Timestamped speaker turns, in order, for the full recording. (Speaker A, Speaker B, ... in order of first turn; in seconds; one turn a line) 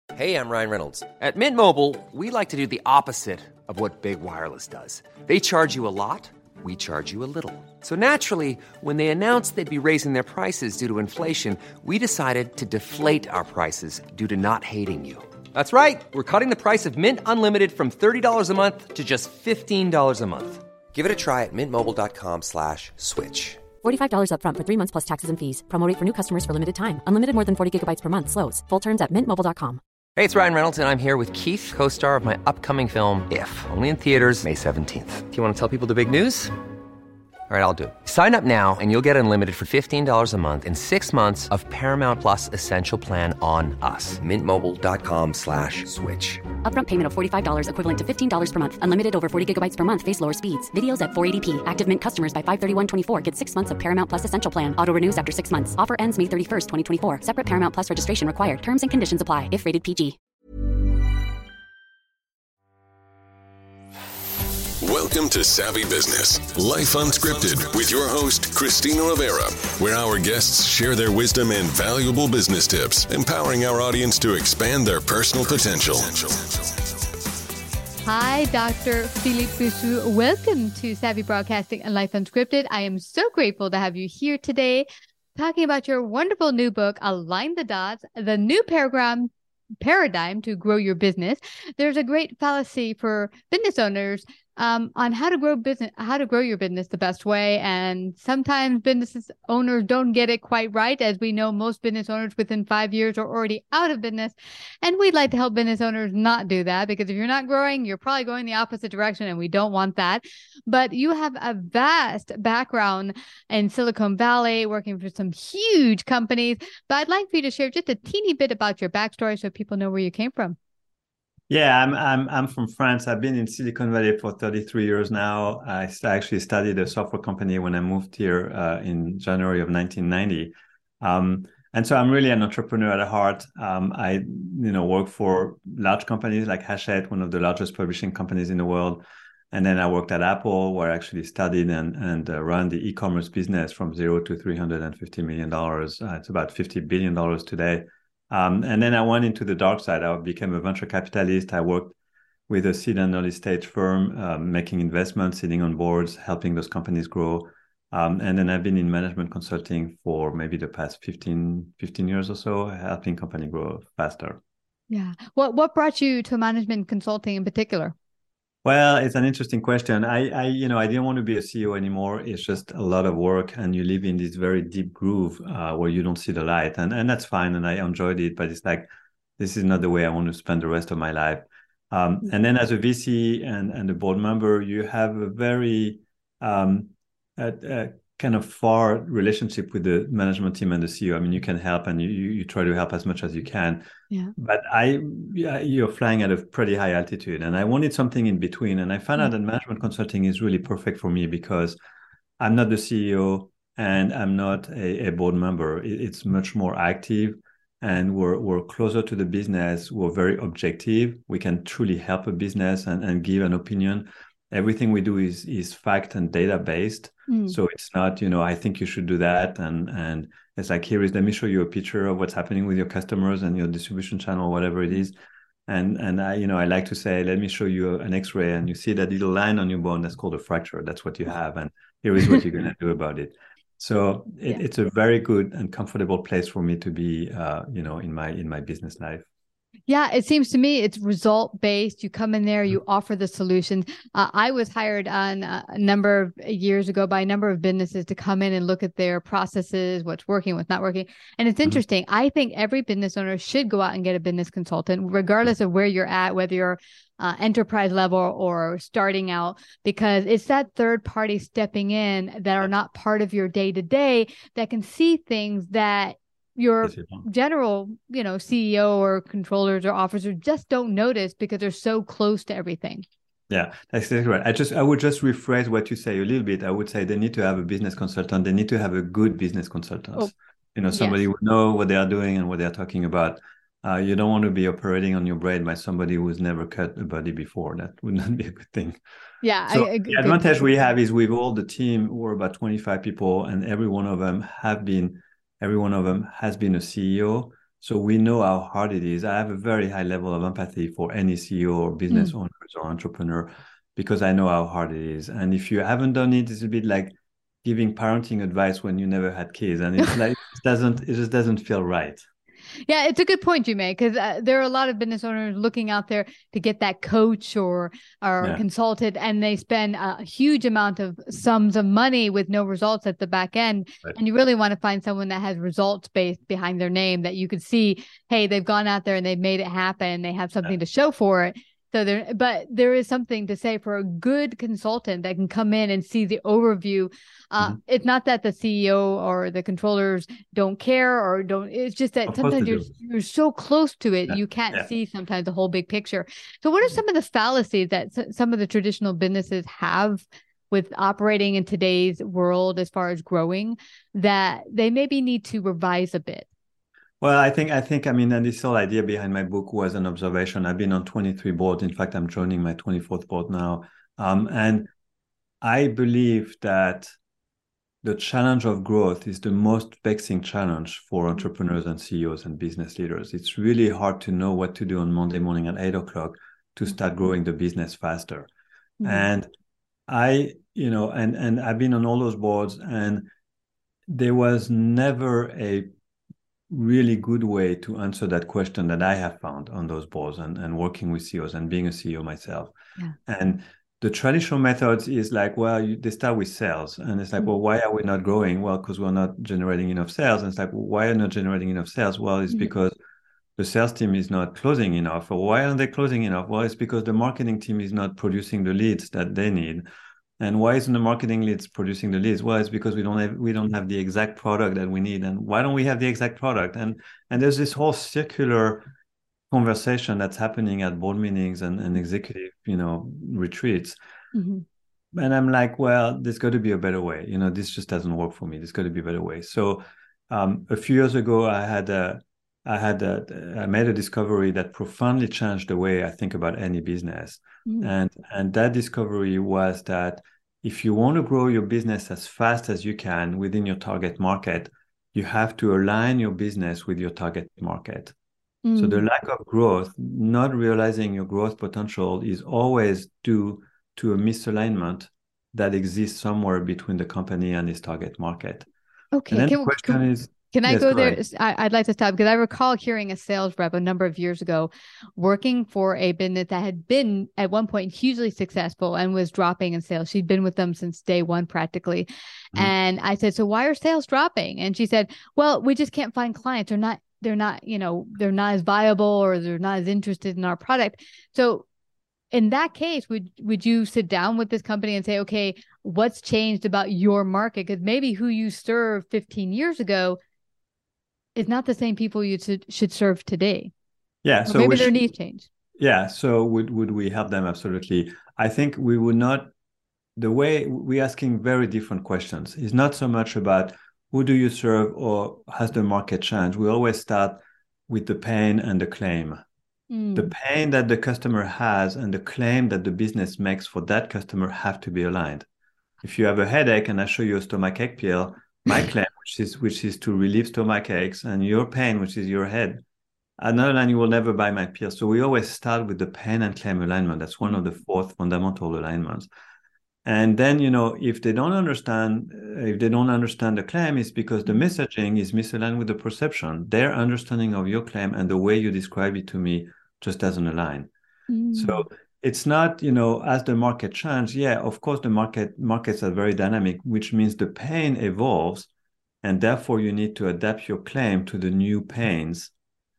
Speaker A: 0.1-23.7
Speaker B: 23.8-29.8
Speaker A: 30.1-36.5
Speaker A: 37.5-46.4
Speaker B: 46.6-60.2
Speaker C: 64.8-76.5
Speaker D: 78.0-120.6
Speaker E: 121.5-151.9
Speaker E: 152.5-164.4
Speaker D: 164.9-167.9
Speaker E: 168.6-178.9
Speaker E: 179.4-193.8
Speaker E: 194.4-201.8
Speaker E: 202.4-225.2
Speaker D: 217.3-217.6
Speaker E: 225.7-239.2
Speaker D: 239.9-273.0
Speaker E: 266.8-267.2
Speaker E: 273.5-289.0
Speaker D: 280.9-281.2
Speaker D: 289.4-290.5
Speaker E: 289.7-312.2
Speaker D: 312.9-356.5
Speaker E: 342.3-342.9
Speaker E: 344.3-344.8
Speaker E: 357.2-364.9
Speaker E: 365.6-367.1
Speaker E: 368.0-378.5
Speaker D: 379.0-379.3
Speaker E: 379.0-379.5
Speaker E: 380.1-383.3
Speaker E: 384.1-385.9
Speaker E: 386.7-392.7
Speaker E: 393.3-402.9
Speaker E: 403.6-409.9
Speaker E: 410.4-418.9
Speaker E: 419.5-424.0
Speaker D: 424.3-424.6
Speaker E: 425.1-448.1
Speaker D: 437.6-437.9
Speaker D: 448.6-449.0
Speaker E: 448.8-458.7
Speaker D: 459.1-481.6
Speaker E: 459.3-461.2
Speaker D: 482.3-490.2
Speaker D: 491.4-493.7
Speaker E: 494.2-494.9
Speaker D: 494.5-495.5
Speaker E: 495.8-499.5
Speaker E: 500.2-509.4
Speaker D: 509.9-510.3
Speaker E: 510.1-515.4
Speaker E: 516.0-522.8
Speaker E: 523.4-529.3
Speaker E: 530.0-540.9
Speaker D: 541.3-541.9
Speaker E: 541.5-548.7
Speaker E: 549.2-552.5